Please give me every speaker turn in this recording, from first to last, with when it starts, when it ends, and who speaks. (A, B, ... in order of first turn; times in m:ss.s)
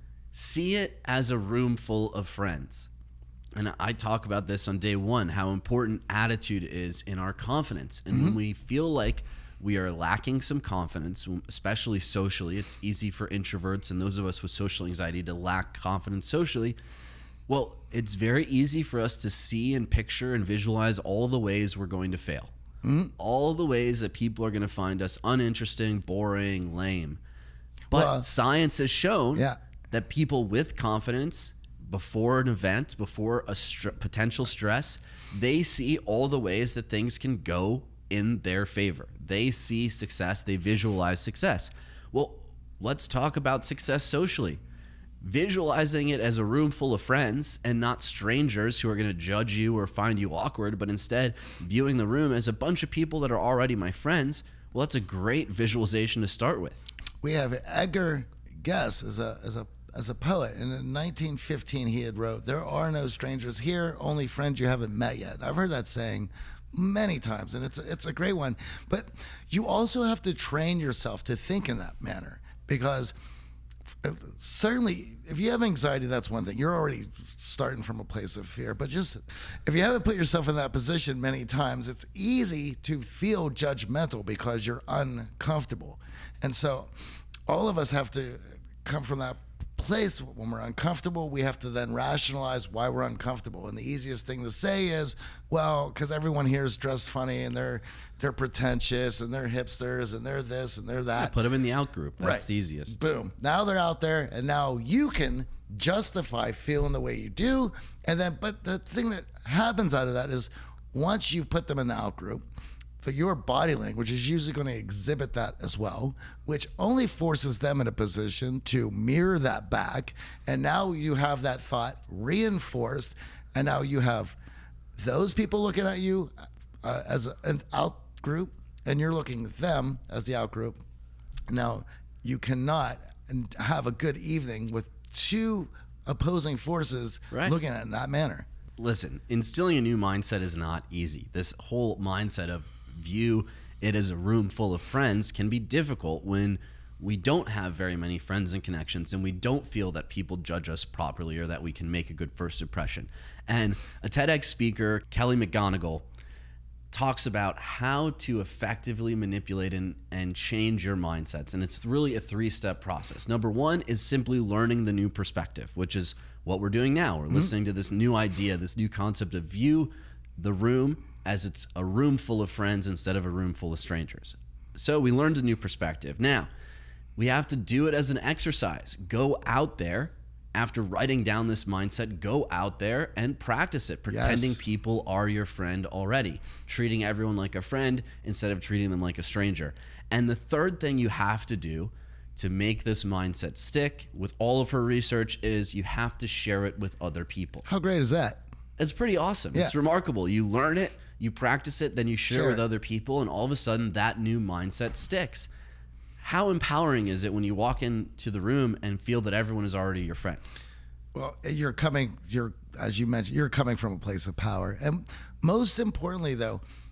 0:00.3-0:02.9 A
0:03.6-0:16.8 A
0:08.1-0:08.4 B
0:17.5-0:22.5 A
0:22.8-0:23.1 B
0:23.2-0:27.2 A
0:27.9-0:28.2 B
0:27.9-0:44.6 A
0:45.2-0:56.8 A
0:57.2-1:13.1 B
1:14.0-1:26.9 B
1:27.5-1:41.4 B
1:41.2-1:43.0 A
1:42.2-1:52.4 B
1:53.0-2:04.4 B
2:05.0-2:10.8 B
2:11.5-2:18.5 B
2:17.3-2:17.6 A
2:18.8-2:36.0 A
2:36.9-2:56.5 A
2:57.2-3:17.6 A
3:04.1-3:04.6 B
3:17.6-3:18.4 B
3:18.8-3:25.5 A
3:22.3-3:22.6 B
3:26.2-3:30.4 A
3:31.1-3:36.6 B